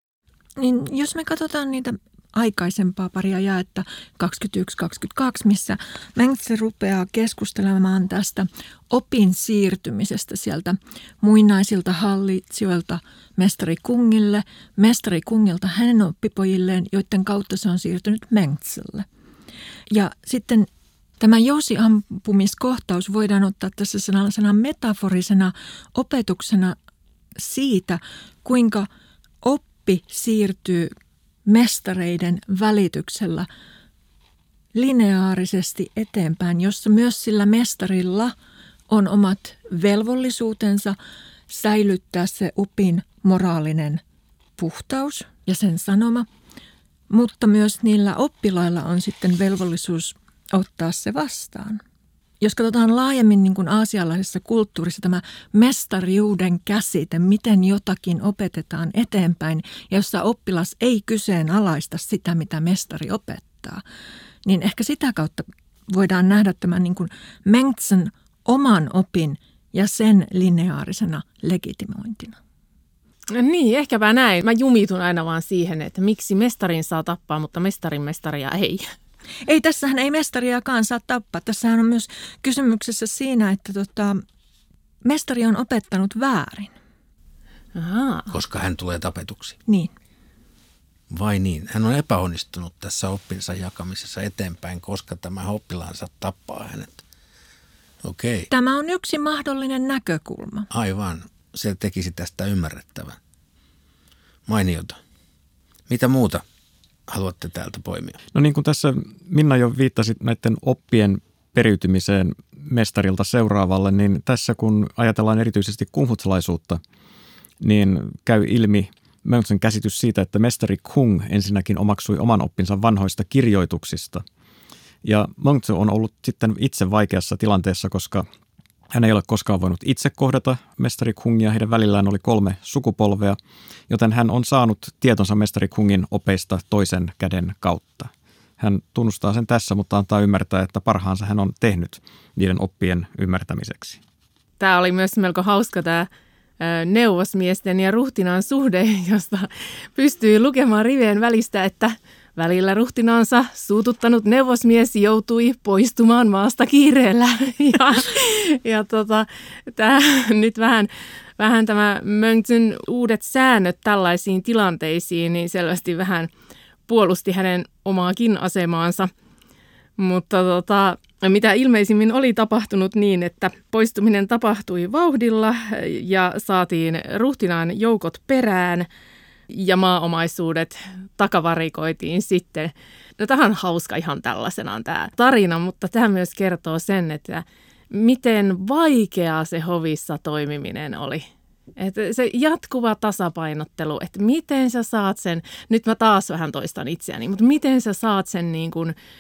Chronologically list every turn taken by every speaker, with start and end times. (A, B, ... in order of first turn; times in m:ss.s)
0:00.6-0:19.1 A
0:19.9-0:20.7 A
0:21.2-0:26.8 A
0:27.4-0:28.9 A
0:29.4-0:30.9 A
0:31.5-0:33.5 A
0:34.7-0:38.4 A
0:38.9-0:41.0 A
0:41.5-0:44.0 A
0:44.6-0:46.3 A
0:47.1-0:51.8 A
0:52.4-1:03.8 A
1:04.4-1:12.4 A
1:13.3-1:18.8 B
1:19.4-1:24.2 A
1:25.0-1:26.7 A
1:27.8-1:28.3 B
1:28.3-1:29.6 C
1:29.7-1:29.9 A
1:31.1-1:37.0 C
1:38.0-1:38.5 C
1:38.5-1:40.7 A
1:40.7-1:43.2 C
1:44.5-1:45.0 C
1:45.9-1:46.4 C
1:47.1-1:48.2 C
1:48.3-1:56.8 D
1:57.6-2:04.2 D
2:05.0-2:08.3 D
2:08.9-2:24.0 D
2:24.6-2:26.1 B
2:26.6-2:46.3 B
2:46.9-2:49.1 B
2:50.0-2:58.9 B
2:59.5-3:11.3 B
3:11.8-3:19.0 B